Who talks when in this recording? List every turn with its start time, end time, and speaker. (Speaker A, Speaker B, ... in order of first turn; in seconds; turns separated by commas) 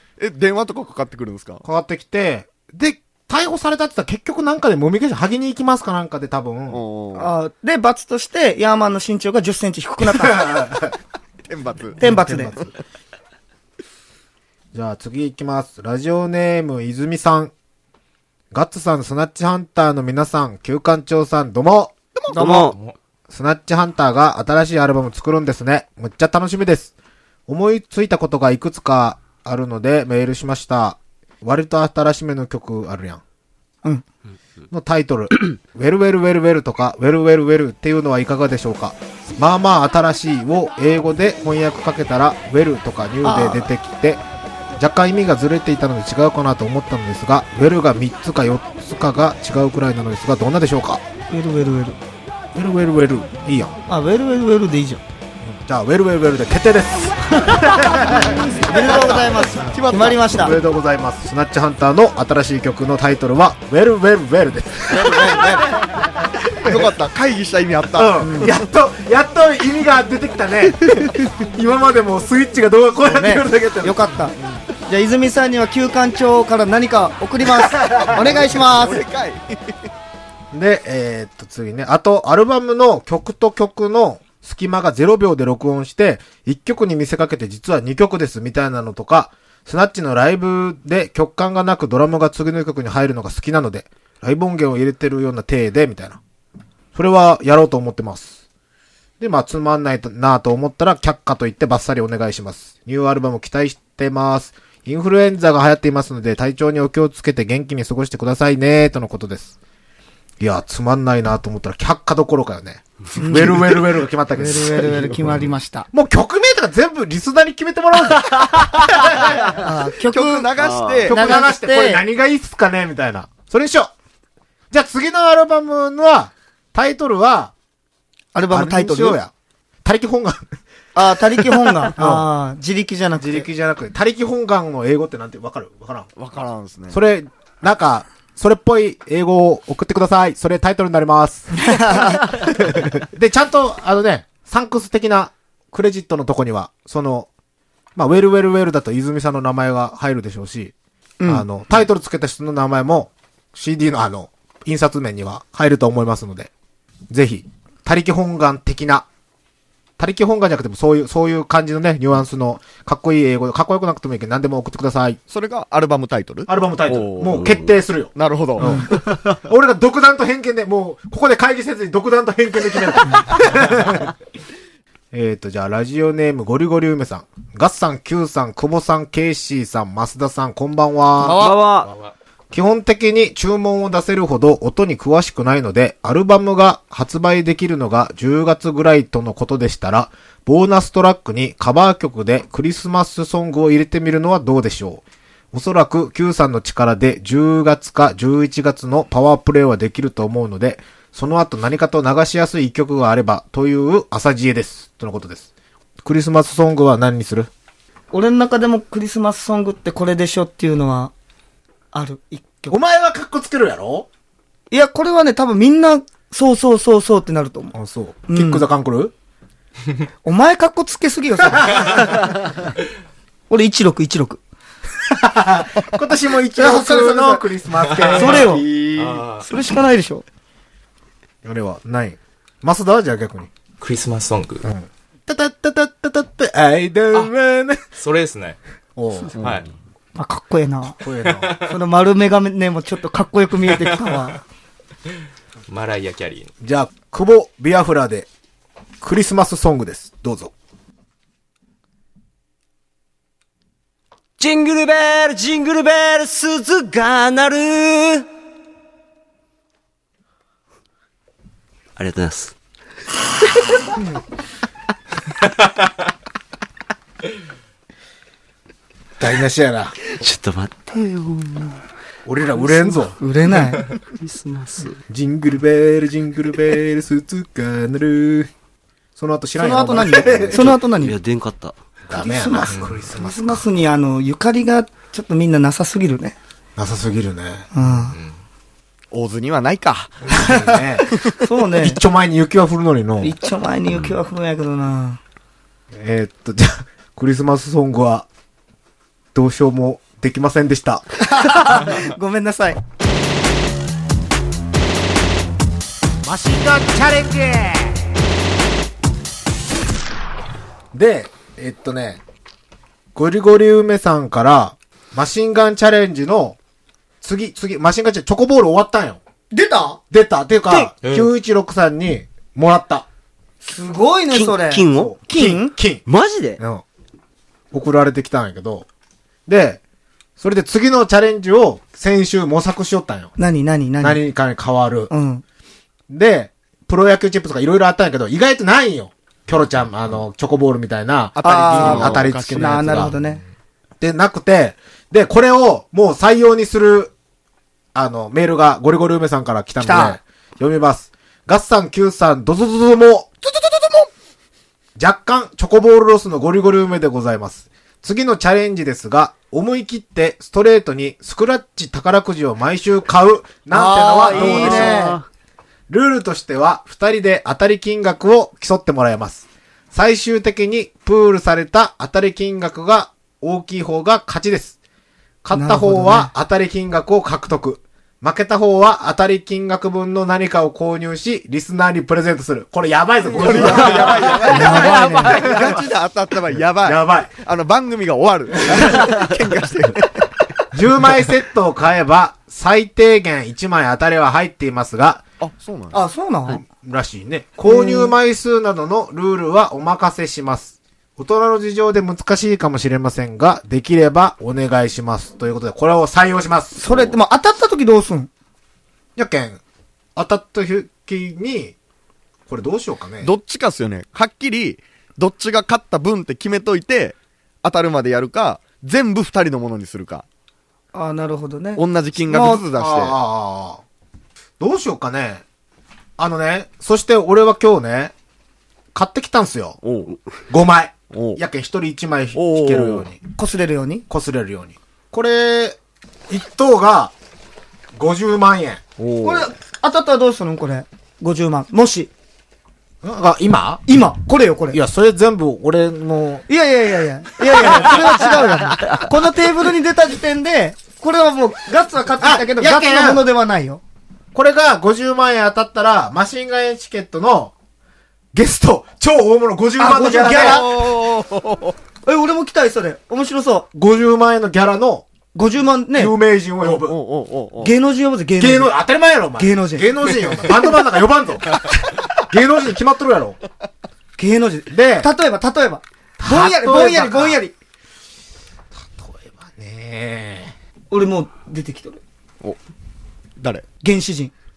Speaker A: 0.2-1.6, Speaker B: 1.6-6.8, Speaker A: 6.7-7.3, Speaker C: 7.1-10.6, Speaker B: 10.0-10.9, Speaker A: 11.5-12.0, Speaker C: 12.0-12.5, Speaker B: 12.0-12.7, Speaker B: 14.7-17.5, Speaker B: 18.5-21.9, Speaker C: 22.3-22.7, Speaker D: 22.3-22.8, Speaker B: 23.3-26.9, Speaker B: 27.5-33.2, Speaker B: 34.7-44.2, Speaker C: 43.2-43.7, Speaker B: 44.8-51.0, Speaker C: 51.3-52.0, Speaker B: 52.5-53.7, Speaker C: 53.9-55.0, Speaker B: 55.4-59.0, Speaker C: 58.1-60.6, Speaker A: 58.4-60.5, Speaker B: 60.3-65.6, Speaker A: 64.9-65.8, Speaker C: 65.2-65.6, Speaker A: 66.6-68.5, Speaker B: 67.9-74.1, Speaker C: 68.2-68.5, Speaker C: 73.0-74.3, Speaker C: 74.8-79.0, Speaker B: 77.8-78.3, Speaker A: 78.0-79.8, Speaker B: 80.5-96.2, Speaker B: 96.9-98.4, Speaker B: 99.2-109.5, Speaker B: 110.4-119.6, Speaker C: 113.2-113.8, Speaker C: 114.3-115.9, Speaker C: 119.5-120.5, Speaker A: 120.0-121.2, Speaker D: 120.6-121.0, Speaker B: 121.0-123.9, Speaker C: 121.1-122.0, Speaker B: 124.7-127.5, Speaker C: 128.3-129.2, Speaker B: 128.5-129.3, Speaker B: 129.8-130.5, Speaker C: 130.9-133.5, Speaker B: 132.0-132.3, Speaker B: 133.2-136.1, Speaker A: 136.2-137.0, Speaker B: 136.9-147.3, Speaker C: 141.6-142.3, Speaker B: 147.9-150.7, Speaker C: 151.2-151.4, Speaker B: 151.2-156.5, Speaker B: 157.1-159.1, Speaker B: 160.0-165.2, Speaker A: 165.3-167.5, Speaker B: 166.5-174.1, Speaker A: 168.1-169.3, Speaker C: 168.6-168.8, Speaker B: 175.1-181.5, Speaker D: 181.2-181.9, Speaker E: 181.8-182.1, Speaker B: 182.5-205.5, Speaker B: 206.0-207.5, Speaker C: 208.1-211.1, Speaker C: 211.9-212.8, Speaker B: 212.7-214.1, Speaker C: 214.7-217.7, Speaker B: 217.7-219.1, Speaker C: 218.3-218.6, Speaker C: 220.2-222.3, Speaker C: 223.5-224.4, Speaker B: 225.1-228.8, Speaker C: 226.5-227.4, Speaker E: 227.9-229.5, Speaker C: 228.1-228.7, Speaker C: 229.4-230.2, Speaker B: 231.4-233.5, Speaker E: 233.8-234.6, Speaker B: 234.6-237.8, Speaker E: 238.0-238.6, Speaker B: 238.9-239.3, Speaker A: 239.4-239.6, Speaker E: 239.4-239.7, Speaker C: 240.1-241.0, Speaker B: 241.0-241.5, Speaker E: 241.4-241.7, Speaker C: 241.7-244.4, Speaker E: 245.7-246.5, Speaker B: 246.6-248.3, Speaker B: 249.0-250.5, Speaker D: 254.4-258.3, Speaker D: 262.0-262.5, Speaker B: 269.2-269.9, Speaker D: 270.1-271.8, Speaker B: 272.2-273.2, Speaker C: 273.2-273.9, Speaker D: 274.1-275.0, Speaker B: 275.1-278.5, Speaker B: 279.1-280.8, Speaker C: 279.6-281.1, Speaker D: 280.4-281.8, Speaker B: 282.1-283.6, Speaker C: 282.1-286.4, Speaker B: 286.8-287.7, Speaker C: 287.7-288.2, Speaker A: 289.1-290.3, Speaker B: 290.3-291.1, Speaker C: 291.4-292.0, Speaker B: 291.8-293.3, Speaker C: 293.2-295.2, Speaker B: 295.9-298.3, Speaker B: 299.3-301.1, Speaker C: 301.2-302.8, Speaker B: 306.2-308.1, Speaker B: 310.9-312.2, Speaker B: 313.1-316.6, Speaker B: 317.2-319.2, Speaker C: 319.5-320.0, Speaker B: 320.1-323.1, Speaker E: 321.0-321.3, Speaker C: 323.6-325.7, Speaker D: 324.3-325.1, Speaker B: 324.9-326.0, Speaker D: 326.1-326.6, Speaker B: 326.6-326.8, Speaker B: 327.7-328.9, Speaker B: 329.5-329.8, Speaker B: 330.4-333.3, Speaker C: 333.4-334.2, Speaker B: 334.0-335.1, Speaker C: 335.1-335.4, Speaker B: 336.1-343.3, Speaker A: 341.4-343.1, Speaker C: 341.4-343.4, Speaker B: 344.0-347.1, Speaker B: 347.9-353.3, Speaker C: 349.8-350.2, Speaker A: 353.7-354.1, Speaker B: 354.9-365.2, Speaker C: 363.7-365.2, Speaker D: 364.0-365.2, Speaker B: 365.9-374.8, Speaker B: 375.4-385.9, Speaker C: 375.5-376.3, Speaker A: 383.3-390.3, Speaker C: 384.5-385.4, Speaker B: 386.5-387.3, Speaker B: 388.7-389.2, Speaker B: 390.7-395.2, Speaker A: 395.4-396.0, Speaker C: 395.9-396.6, Speaker B: 396.5-406.9, Speaker C: 397.6-398.1, Speaker C: 406.8-408.3, Speaker B: 409.1-409.6, Speaker B: 410.1-411.7, Speaker B: 412.5-413.3, Speaker A: 413.2-420.2, Speaker C: 420.9-422.6, Speaker A: 421.8-423.1, Speaker B: 422.7-423.8, Speaker B: 424.6-425.4, Speaker B: 426.2-428.1, Speaker B: 428.9-429.8, Speaker A: 429.8-430.2, Speaker B: 430.5-433.2, Speaker A: 431.1-431.4, Speaker A: 432.4-433.1, Speaker C: 433.4-434.0, Speaker B: 434.1-435.8, Speaker B: 436.3-437.1, Speaker B: 437.9-438.8, Speaker A: 439.0-439.5, Speaker C: 439.2-442.1, Speaker B: 443.0-443.8, Speaker C: 443.9-444.8, Speaker B: 444.7-446.4, Speaker C: 446.5-453.8, Speaker B: 447.5-448.4, Speaker B: 452.2-453.2, Speaker B: 454.3-457.5, Speaker B: 458.3-460.6, Speaker C: 459.8-460.8, Speaker A: 460.2-461.8, Speaker C: 462.0-463.7, Speaker B: 463.7-465.1, Speaker C: 465.3-466.1, Speaker B: 465.9-467.0, Speaker A: 466.6-467.7, Speaker C: 467.6-468.8, Speaker B: 468.4-471.6, Speaker C: 469.4-469.9, Speaker B: 472.2-473.4, Speaker C: 474.2-477.5, Speaker B: 474.7-475.1, Speaker B: 476.2-477.4, Speaker B: 478.7-480.5, Speaker C: 480.9-482.0, Speaker A: 483.4-483.6, Speaker C: 483.8-484.3